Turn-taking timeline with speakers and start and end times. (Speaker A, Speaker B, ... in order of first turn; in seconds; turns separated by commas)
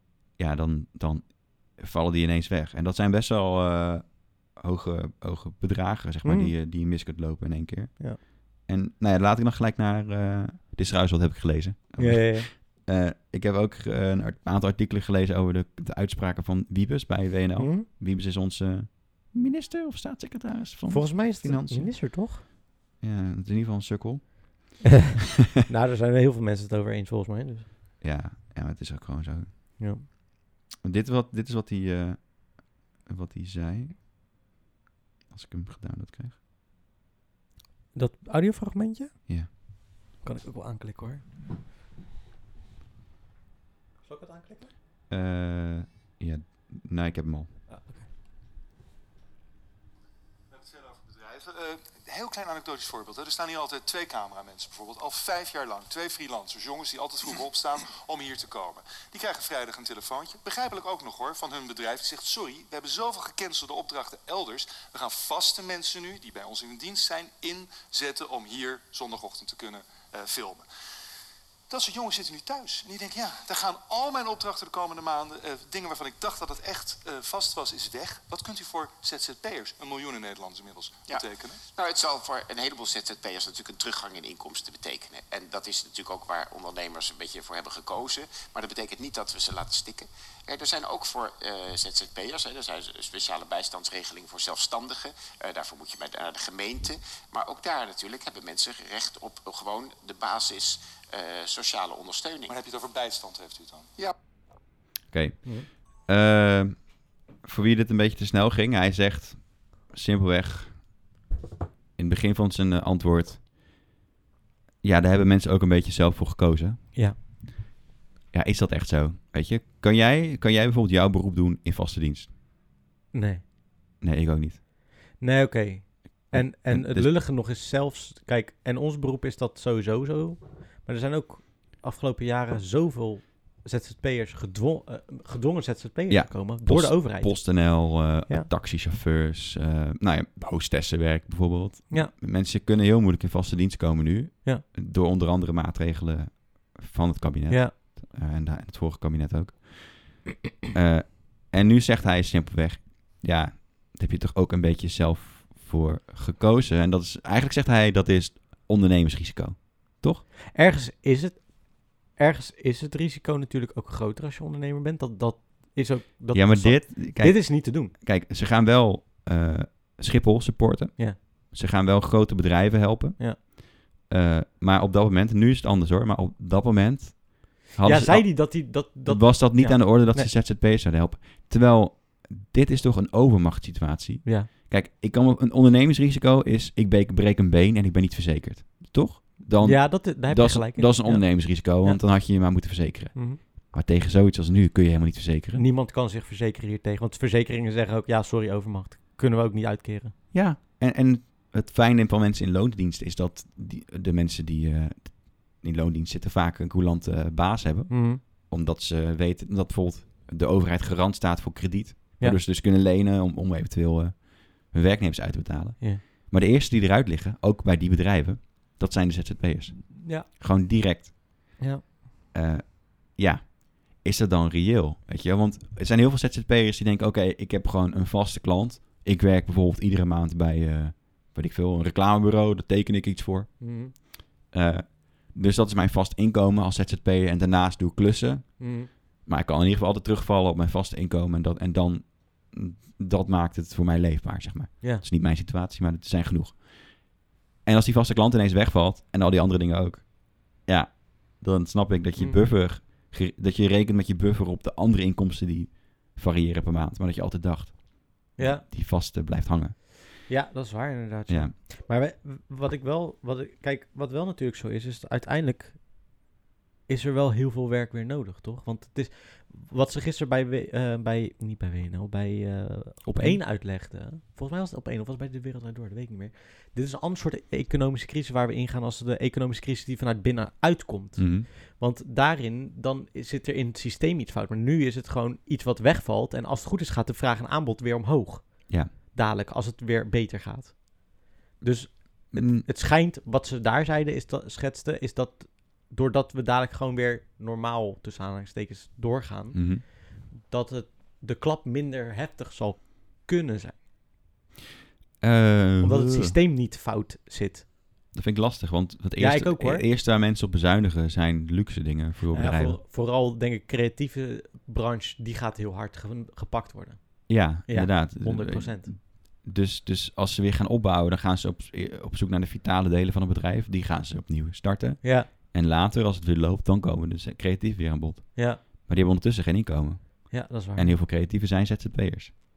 Speaker A: 0.4-22.0, Speaker B: 6.2-6.5, Speaker B: 12.0-12.5, Speaker B: 17.6-17.9, Speaker B: 20.9-22.4, Speaker A: 23.0-24.9, Speaker B: 25.6-27.7, Speaker A: 28.0-29.5, Speaker B: 29.8-30.0, Speaker A: 30.8-34.0, Speaker A: 35.3-36.4, Speaker B: 37.9-41.2, Speaker B: 44.0-44.7, Speaker A: 45.1-47.5, Speaker B: 47.7-48.1, Speaker C: 50.5-70.7, Speaker C: 71.7-81.6, Speaker D: 81.7-102.5, Speaker C: 102.5-103.9, Speaker A: 105.1-110.9, Speaker A: 112.0-113.5, Speaker A: 114.8-116.8, Speaker A: 118.3-122.3, Speaker B: 123.1-123.4, Speaker A: 124.0-124.6, Speaker B: 125.2-138.5, Speaker A: 126.3-127.1, Speaker A: 136.1-160.2, Speaker B: 160.6-167.9, Speaker A: 166.3-195.6, Speaker B: 177.8-180.3, Speaker B: 189.6-192.0, Speaker B: 193.1-193.4, Speaker B: 195.6-200.2, Speaker A: 200.3-221.6, Speaker B: 207.9-208.2, Speaker A: 222.3-259.8, Speaker B: 233.6-233.9, Speaker B: 238.6-238.9, Speaker B: 258.4-258.6, Speaker B: 260.3-266.1, Speaker A: 261.3-261.5, Speaker B: 266.9-303.8, Speaker A: 273.1-273.4, Speaker A: 281.2-281.5, Speaker A: 292.3-292.6, Speaker A: 299.5-299.8, Speaker A: 305.2-306.4, Speaker B: 305.8-307.7, Speaker A: 308.1-312.8, Speaker B: 309.2-309.9, Speaker B: 312.3-318.9, Speaker A: 317.3-332.3, Speaker B: 325.0-325.3, Speaker B: 328.4-328.6, Speaker B: 330.3-331.0